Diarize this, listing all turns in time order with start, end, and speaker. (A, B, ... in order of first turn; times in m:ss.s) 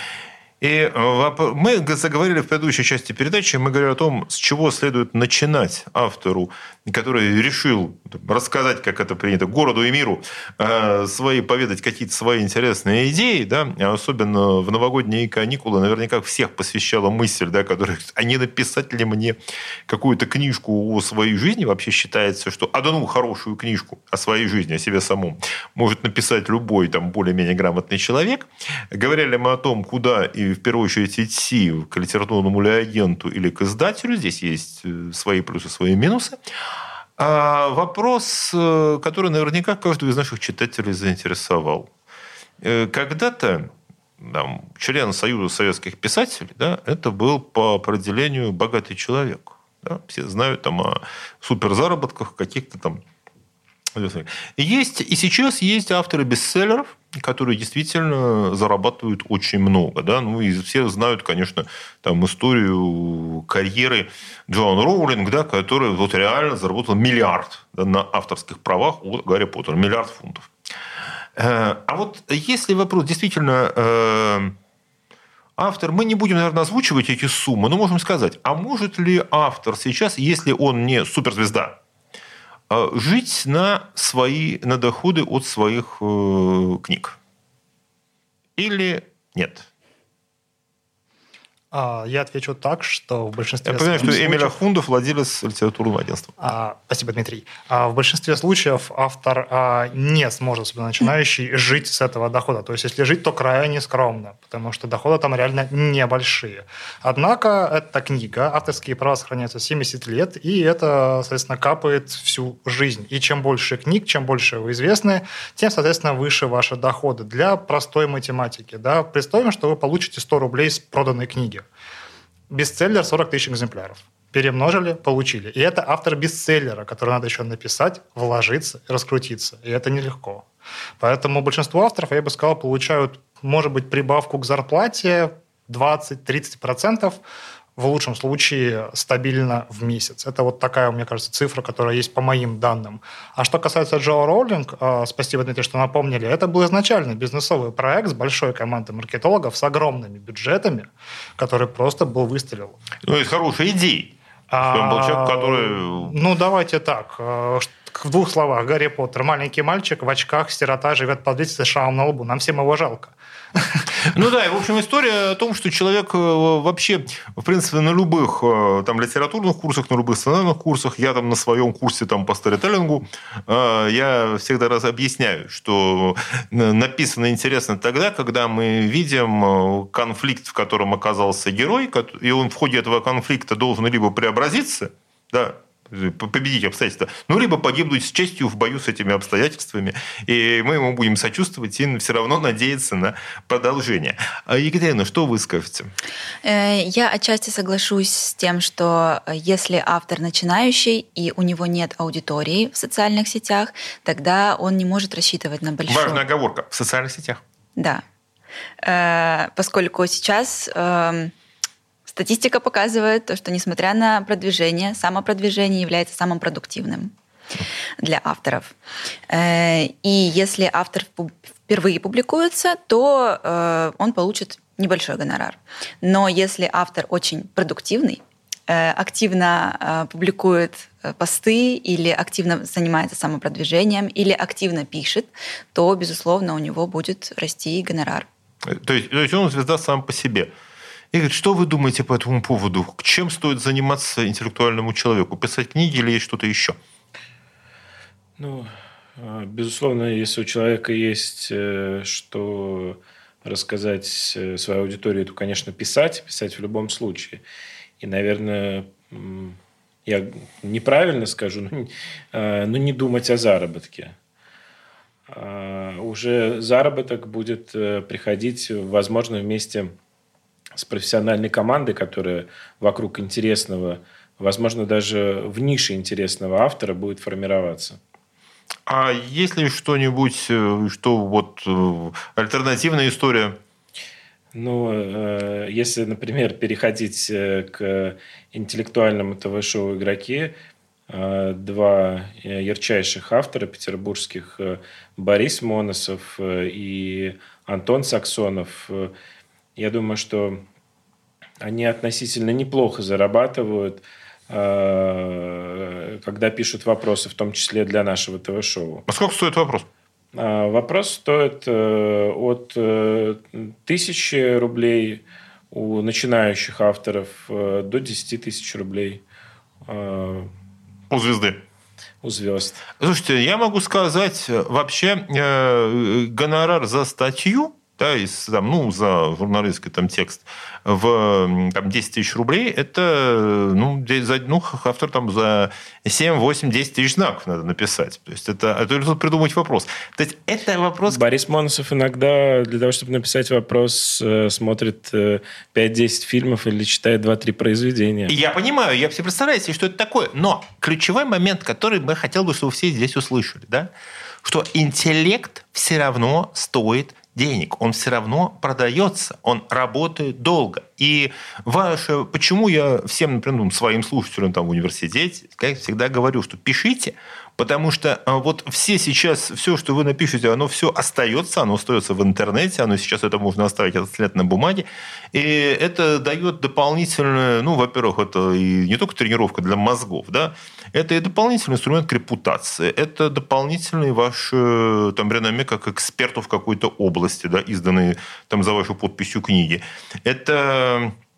0:00.6-0:36.4 A
0:37.2-0:41.9 A
0:42.6-0:53.0 A
0:54.0-1:10.5 A
1:11.4-1:14.6 A
1:15.6-1:21.8 A
1:22.7-1:27.2 A
1:28.6-1:29.7 A
1:31.7-1:34.6 B
1:33.6-1:36.3 A
1:36.4-2:01.6 B
2:02.5-2:10.5 B
2:11.0-2:17.2 B
2:17.8-2:32.8 B
2:33.0-2:36.1 A
2:34.5-2:43.9 B
2:44.0-3:15.9 A
3:16.4-3:26.2 C
3:25.9-3:27.4 A
3:27.8-3:28.0 C
3:28.8-3:31.3 C
3:32.1-3:37.1 C
3:38.0-3:38.8 C
3:39.3-3:58.3 C
3:58.6-4:00.5 A
4:01.1-4:06.8 A
4:08.4-4:17.4 D
4:18.0-4:24.2 D
4:25.3-4:29.9 D
4:30.8-4:38.0 D
4:38.9-4:43.6 A
4:44.5-4:50.6 D
4:51.1-4:59.1 D
4:59.8-5:00.6 D
5:01.6-5:09.1 D
5:09.1-5:09.9 A
5:10.3-5:19.2 D
5:19.9-5:20.5 D
5:21.1-5:21.6 A
5:22.2-5:22.8 D
5:23.0-5:41.2 A
5:41.1-5:48.3 D
5:48.3-5:53.9 A
5:54.4-6:31.2 A